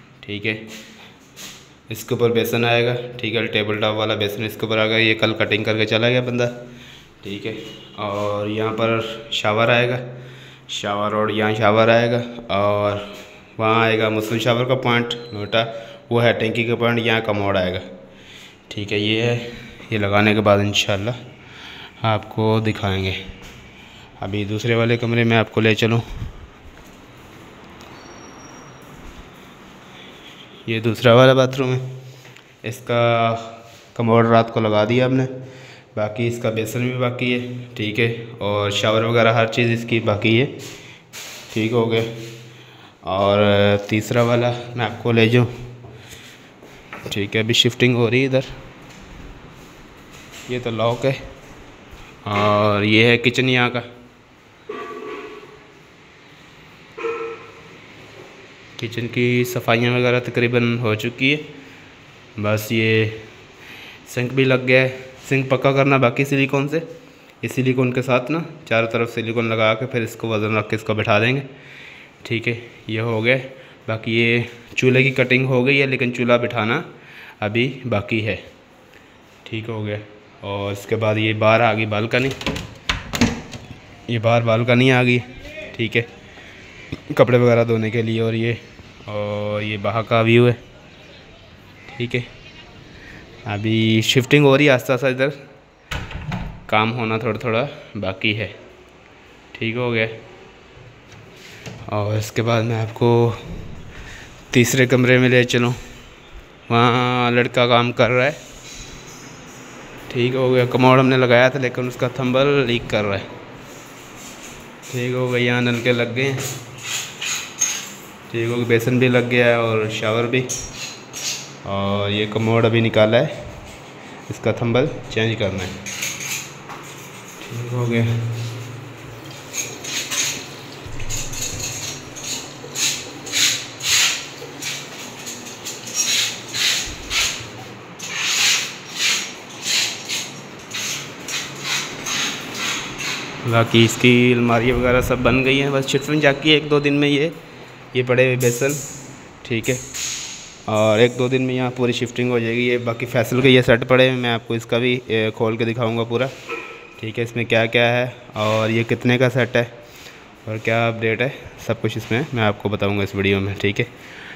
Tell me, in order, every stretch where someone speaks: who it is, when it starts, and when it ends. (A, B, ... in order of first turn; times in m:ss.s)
0:00.2-0:00.6 A
0:01.9-0:06.5 A
0:07.2-0:10.0 A
0:10.7-0:17.9 A
0:18.7-0:21.2 A
0:22.0-0:23.2 A
0:24.2-0:26.0 A
0:30.6-0:31.8 A
0:32.6-0:35.3 A
0:35.9-0:40.5 A
0:41.5-0:42.1 A
0:43.0-0:45.5 A
0:47.0-0:48.5 A
0:50.5-0:51.2 A
0:52.2-0:53.8 A
0:58.8-1:01.5 A
1:02.4-1:03.3 A
1:04.0-1:06.8 A
1:07.4-1:11.5 A
1:12.2-1:16.8 A
1:17.4-1:18.4 A
1:19.4-1:22.4 A
1:24.1-1:26.1 A
1:27.1-1:30.6 A
1:31.9-1:32.3 A
1:33.4-1:35.4 A
1:36.7-1:38.5 A
1:39.5-1:40.1 A
1:41.9-1:43.5 A
1:44.5-1:45.8 A
1:46.7-1:48.4 A
1:50.1-1:53.3 A
1:54.9-1:56.5 A
1:58.3-2:00.5 A
2:01.6-2:03.3 A
2:04.3-2:05.8 A
2:07.4-2:08.2 A
2:23.4-2:27.4 A
2:27.9-2:28.8 A
2:29.4-2:29.8 A
2:30.7-2:36.3 A
2:37.0-2:39.7 A
2:40.4-2:43.9 A